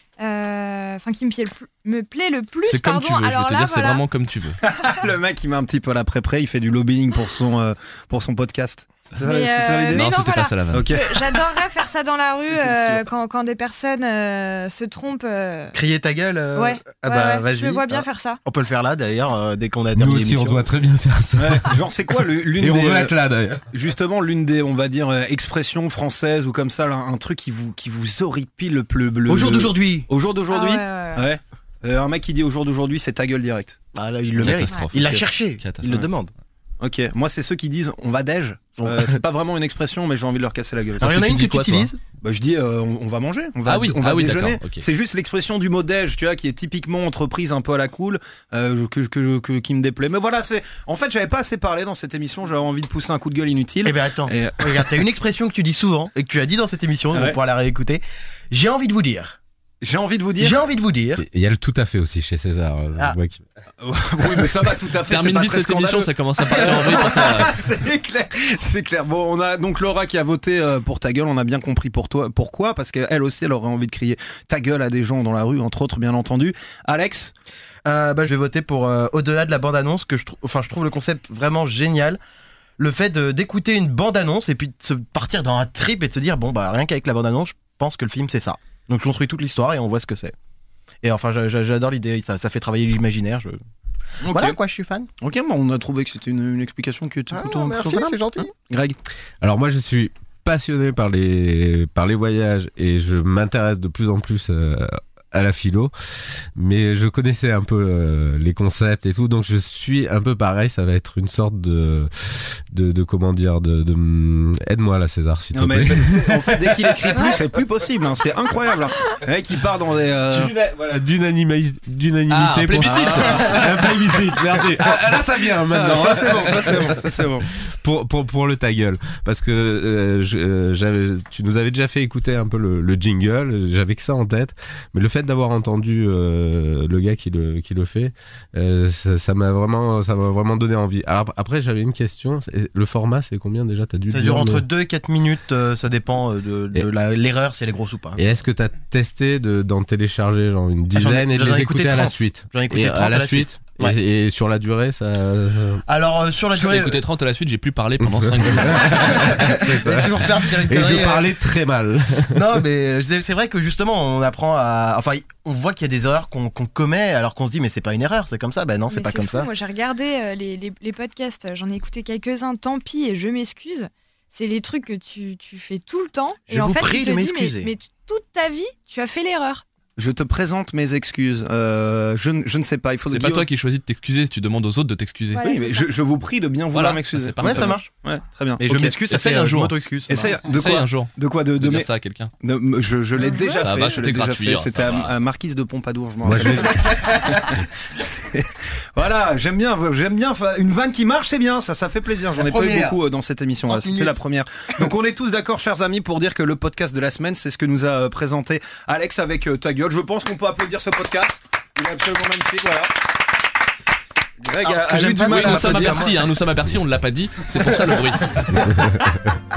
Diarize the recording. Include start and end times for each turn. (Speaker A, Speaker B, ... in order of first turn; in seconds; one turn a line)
Speaker A: 0.2-4.0
Speaker B: 2.7-4.6
Speaker C: 4.7-10.1
Speaker A: 9.2-15.8
Speaker B: 9.9-10.9
Speaker C: 10.7-11.5
Speaker C: 12.5-13.0
Speaker D: 15.7-20.6
Speaker A: 16.6-18.4
Speaker E: 20.0-21.8
Speaker C: 21.4-23.1
Speaker E: 22.6-23.6
Speaker C: 23.7-33.8
Speaker D: 29.3-30.1
Speaker A: 30.5-31.3
Speaker D: 33.9-36.3
Speaker B: 34.4-36.1
Speaker C: 36.8-41.4
Speaker D: 38.8-39.2
Speaker D: 41.0-42.0
Speaker B: 41.0-41.9
Speaker C: 42.2-55.0
Speaker B: 43.7-44.8
Speaker D: 53.8-59.4
Speaker C: 57.1-57.4
Speaker C: 59.8-60.6
Speaker D: 60.4-61.2
Speaker E: 61.2-63.4
Speaker C: 63.8-77.3
Speaker B: 65.1-67.6
Speaker D: 77.9-82.2
Speaker D: 82.8-90.3
Speaker D: 91.0-93.6
Speaker D: 94.2-95.1
Speaker C: 94.3-94.5
Speaker C: 95.2-99.0
Speaker D: 97.3-98.5
Speaker E: 99.4-105.9
Speaker E: 106.5-117.2
Speaker C: 115.5-120.5
Speaker E: 120.3-127.1
Speaker B: 122.3-123.7
Speaker C: 122.8-125.0
Speaker C: 125.7-127.5
Speaker E: 127.7-144.6
Speaker D: 144.1-148.2
Speaker E: 148.2-155.8
Speaker D: 150.9-154.0
Speaker D: 155.9-157.0
Speaker B: 156.6-159.5
Speaker E: 158.0-162.5
Speaker D: 158.8-161.3
Speaker D: 162.3-169.5
Speaker A: 168.9-179.6
Speaker D: 176.5-177.7
Speaker C: 180.0-183.5
Speaker B: 183.1-185.4
Speaker A: 185.3-185.9
Speaker C: 185.4-189.0
Speaker B: 186.7-187.8
Speaker D: 187.4-187.9
Speaker D: 188.6-190.4
Speaker B: 189.1-189.7
Speaker C: 190.1-191.9
Speaker B: 190.4-192.3
Speaker C: 192.4-212.9
Speaker A: 193.2-193.7
Speaker B: 193.6-195.2
Speaker E: 196.2-196.8
Speaker D: 202.4-203.0
Speaker D: 203.7-204.2
Speaker C: 214.4-216.1
Speaker D: 214.7-216.2
Speaker B: 215.2-218.4
Speaker E: 218.7-219.0